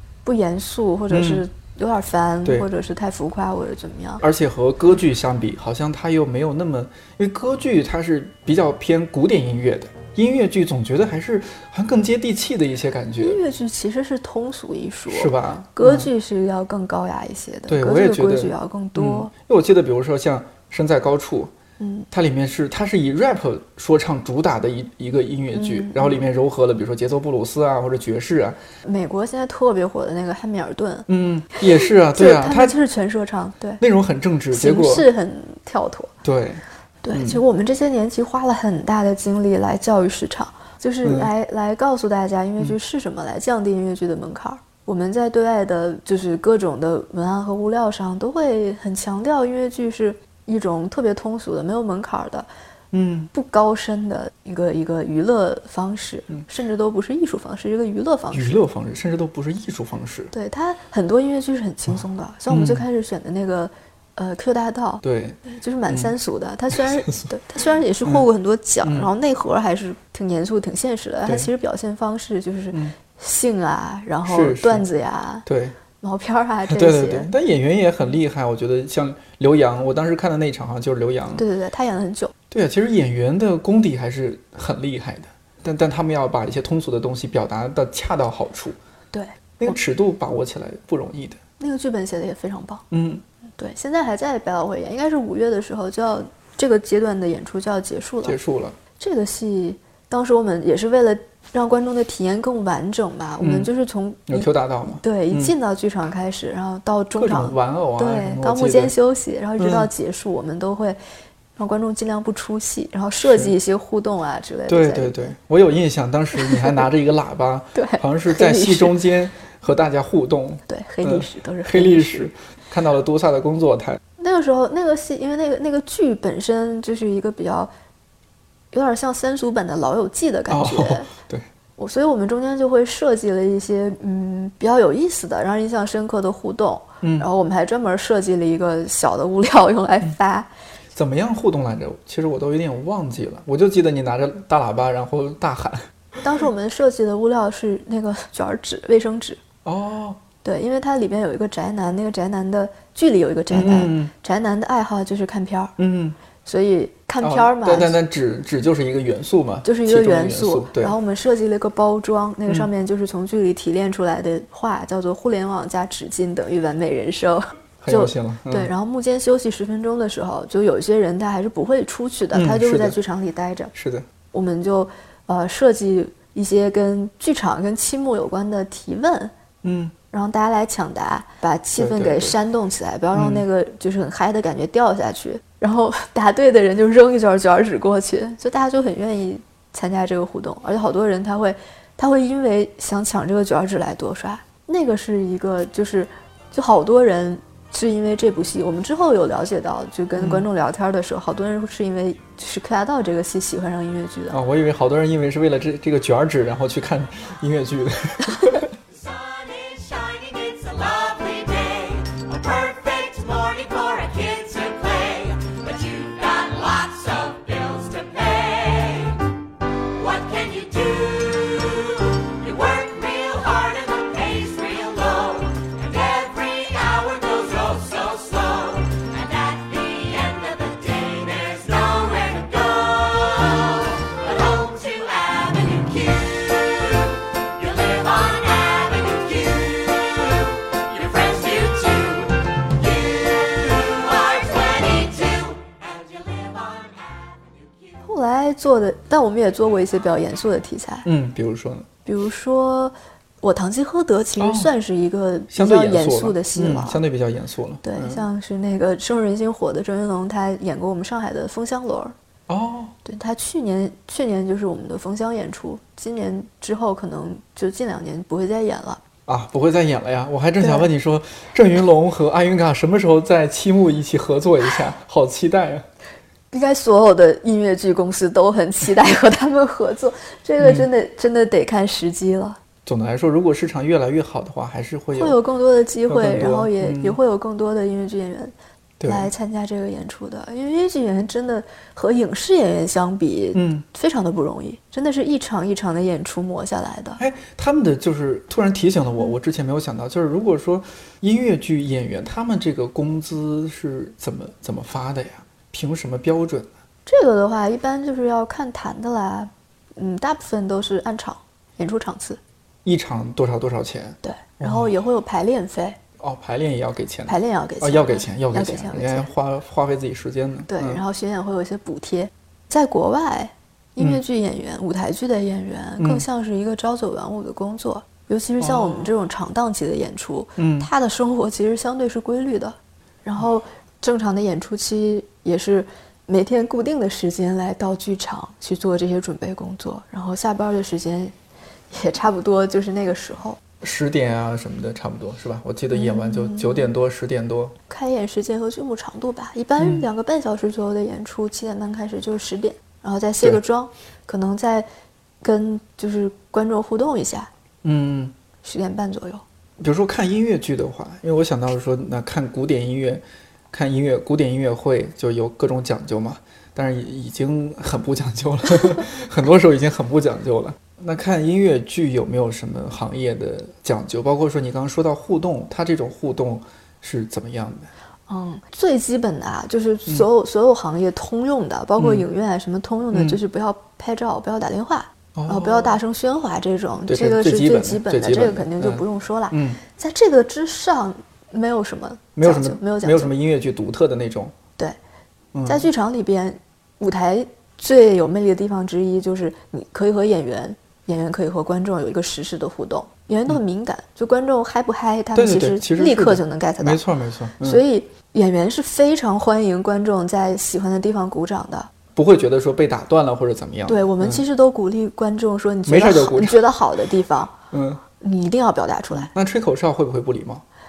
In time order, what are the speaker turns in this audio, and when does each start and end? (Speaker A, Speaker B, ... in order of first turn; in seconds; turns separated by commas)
Speaker A: 0.2-4.2, Speaker B: 1.1-1.4, Speaker B: 4.2-13.4, Speaker A: 13.2-19.3, Speaker B: 15.1-16.1, Speaker B: 17.7-21.5, Speaker A: 21.8-22.1, Speaker B: 22.1-28.6, Speaker A: 25.5-26.2, Speaker A: 28.8-31.1, Speaker B: 31.1-32.8, Speaker A: 31.6-33.8, Speaker B: 33.8-35.1, Speaker A: 34.5-36.1, Speaker B: 36.2-37.4, Speaker A: 37.0-52.5, Speaker B: 41.0-41.3, Speaker B: 52.9-53.3, Speaker A: 53.3-58.6, Speaker B: 58.3-60.3, Speaker A: 60.3-75.5, Speaker B: 62.5-62.9, Speaker B: 65.0-66.1, Speaker B: 66.7-67.3, Speaker B: 68.8-69.1, Speaker B: 74.2-74.9, Speaker B: 75.5-75.8, Speaker A: 76.0-77.3, Speaker B: 76.7-81.5, Speaker A: 81.4-82.3, Speaker B: 82.5-88.8, Speaker A: 89.1-89.7, Speaker B: 89.6-91.4, Speaker A: 91.6-92.8, Speaker B: 92.9-93.2, Speaker A: 93.6-98.4, Speaker B: 98.2-98.8, Speaker A: 99.0-111.0, Speaker B: 103.4-103.7, Speaker B: 104.3-105.5, Speaker B: 107.2-109.0, Speaker B: 109.6-109.9, Speaker A: 111.6-115.4, Speaker B: 113.2-113.5, Speaker B: 114.7-124.0, Speaker A: 116.3-116.8, Speaker A: 117.8-119.0, Speaker A: 120.7-122.3, Speaker A: 124.2-127.7, Speaker A: 128.7-131.1, Speaker B: 130.5-131.5, Speaker A: 131.8-140.5, Speaker B: 137.0-137.3, Speaker B: 140.9-145.9, Speaker A: 146.2-149.4, Speaker B: 149.7-150.2, Speaker A: 150.4-155.7, Speaker B: 153.5-154.1, Speaker B: 155.8-156.2, Speaker A: 156.5-158.0, Speaker B: 157.2-160.9, Speaker A: 159.7-173.7, Speaker B: 167.8-168.7, Speaker B: 172.3-173.0, Speaker B: 173.7-174.1, Speaker A: 174.3-179.3, Speaker B: 179.6-179.9, Speaker A: 180.1-204.4, Speaker B: 181.8-182.3, Speaker B: 183.1-183.4, Speaker B: 200.2-200.5, Speaker B: 204.3-208.7, Speaker C: 208.9-219.3, Speaker C: 219.9-247.9, Speaker A: 248.0-251.1, Speaker B: 251.1-251.9, Speaker A: 252.1-257.0, Speaker B: 254.4-254.7, Speaker B: 255.5-258.2, Speaker A: 257.8-262.1, Speaker B: 262.5-262.9, Speaker A: 263.1-269.0, Speaker B: 269.3-275.9, Speaker A: 270.6-270.9, Speaker A: 276.5-282.6, Speaker B: 280.6-280.9, Speaker B: 282.9-285.4, Speaker A: 285.1-288.5, Speaker B: 286.1-287.2, Speaker B: 289.0-289.3, Speaker A: 289.1-297.2, Speaker B: 293.6-293.8, Speaker B: 297.2-306.7, Speaker A: 307.1-312.4, Speaker B: 312.9-314.9, Speaker A: 314.2-316.0, Speaker B: 316.2-321.0, Speaker A: 317.3-319.3, Speaker A: 320.7-341.3, Speaker B: 326.0-326.2, Speaker B: 328.6-329.1, Speaker B: 330.6-330.9, Speaker A: 341.9-343.6, Speaker B: 343.8-347.8, Speaker A: 345.9-346.9, Speaker A: 347.9-354.9, Speaker B: 349.8-350.1, Speaker A: 355.4-357.5, Speaker B: 357.8-358.3, Speaker A: 358.6-359.4, Speaker B: 359.8-377.9, Speaker A: 378.3-393.3, Speaker B: 382.0-382.2, Speaker B: 383.1-383.4, Speaker B: 385.4-386.0, Speaker B: 387.1-389.8, Speaker B: 392.4-394.6, Speaker B: 395.5-395.9, Speaker A: 395.7-407.0, Speaker B: 405.3-407.8, Speaker A: 407.6-411.9, Speaker B: 412.1-414.4, Speaker A: 413.9-417.6, Speaker B: 415.9-416.6, Speaker B: 417.7-418.0, Speaker A: 418.2-419.3, Speaker B: 419.1-420.6